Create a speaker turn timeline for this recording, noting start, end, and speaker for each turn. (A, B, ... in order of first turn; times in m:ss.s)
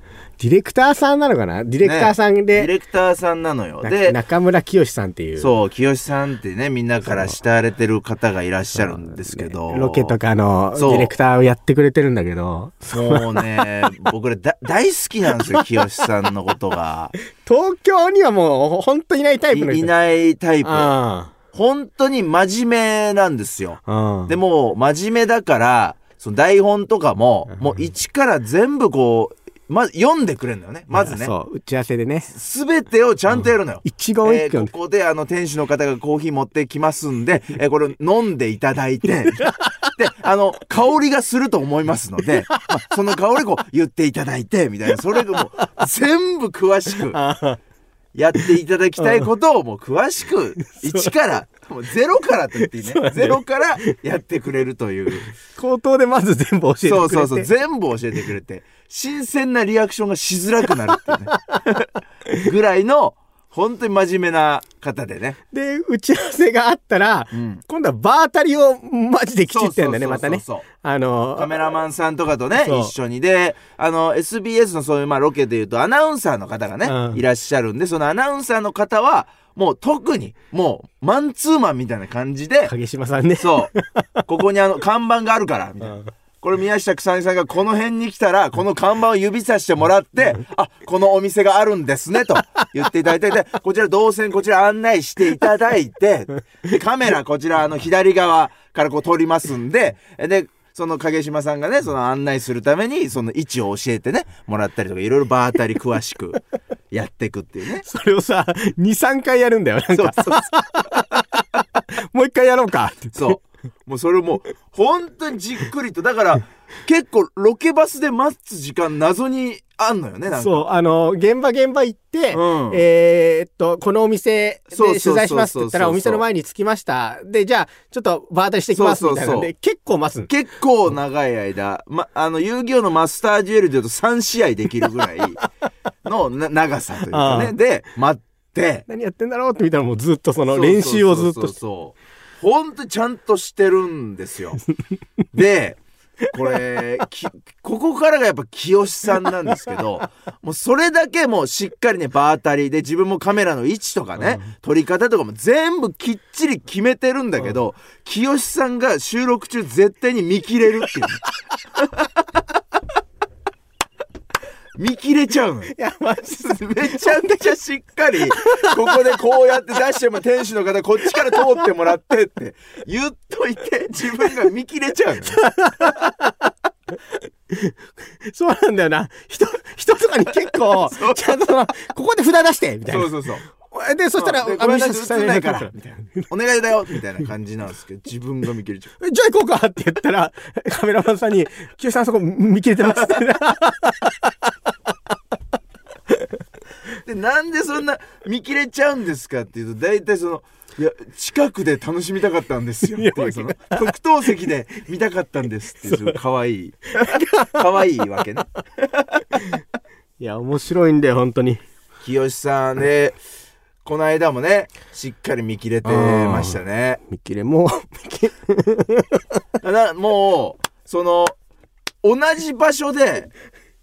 0:00.4-0:02.7 A
0:01.8-0:04.2 B
0:03.8-0:05.5 A
0:05.4-0:10.2 B
0:08.8-0:13.4 A
0:10.8-0:11.1 B
0:12.9-0:17.1 B
0:17.4-0:19.9 A
0:19.5-0:20.9 B
0:20.6-0:21.3 A
0:21.5-0:31.3 B
0:23.8-0:24.4 A
0:27.5-0:27.8 A
0:30.9-0:32.3 A
0:32.3-0:47.2 B
0:33.3-0:34.7 A
0:39.4-0:39.7 A
0:47.0-0:47.6 A
0:48.1-0:55.3 B
0:49.0-0:49.3 A
0:50.6-0:51.1 A
0:52.6-0:53.9 A
0:55.3-0:57.5 A
0:56.8-1:01.8 B
1:02.4-1:05.4 B
1:05.5-1:11.7 A
1:07.3-1:07.6 B
1:09.5-1:10.7 B
1:11.4-1:22.7 B
1:12.5-1:12.9 A
1:16.8-1:17.2 A
1:22.6-1:24.1 A
1:23.4-1:23.7 B
1:24.3-1:46.4 B
1:25.8-1:26.1 A
1:46.9-1:47.8 B
1:47.8-1:51.4 A
1:49.9-1:50.4 B
1:52.1-1:53.4 A
1:53.1-2:00.7 B
2:00.3-2:10.3 A
2:02.3-2:02.8 B
2:04.7-2:06.2 B
2:08.7-2:09.5 B
2:10.3-2:15.4 B
2:16.0-2:18.9 B
2:17.1-2:17.6 A
2:18.9-2:21.6 A
2:20.5-2:24.6 B
2:25.3-2:41.2 B
2:34.2-2:34.5 A
2:44.8-2:45.7 B
2:45.7-2:47.4 A
2:46.4-2:55.4 B
2:48.2-2:49.0 A
2:51.1-2:51.6 A
2:55.2-2:56.3 A
2:57.5-3:06.3 A
3:00.4-3:01.4 B
3:02.8-3:03.4 B
3:04.2-3:08.9 B
3:09.0-3:14.3 A
3:17.0-3:28.4 B
3:22.9-3:23.9 A
3:25.8-3:26.2 A
3:27.0-3:27.5 A
3:30.2-3:31.6 A
3:32.0-3:33.2 B
3:33.8-3:37.0 B
3:35.8-3:39.2 A
3:39.6-3:41.4 B
3:42.0-3:43.3 B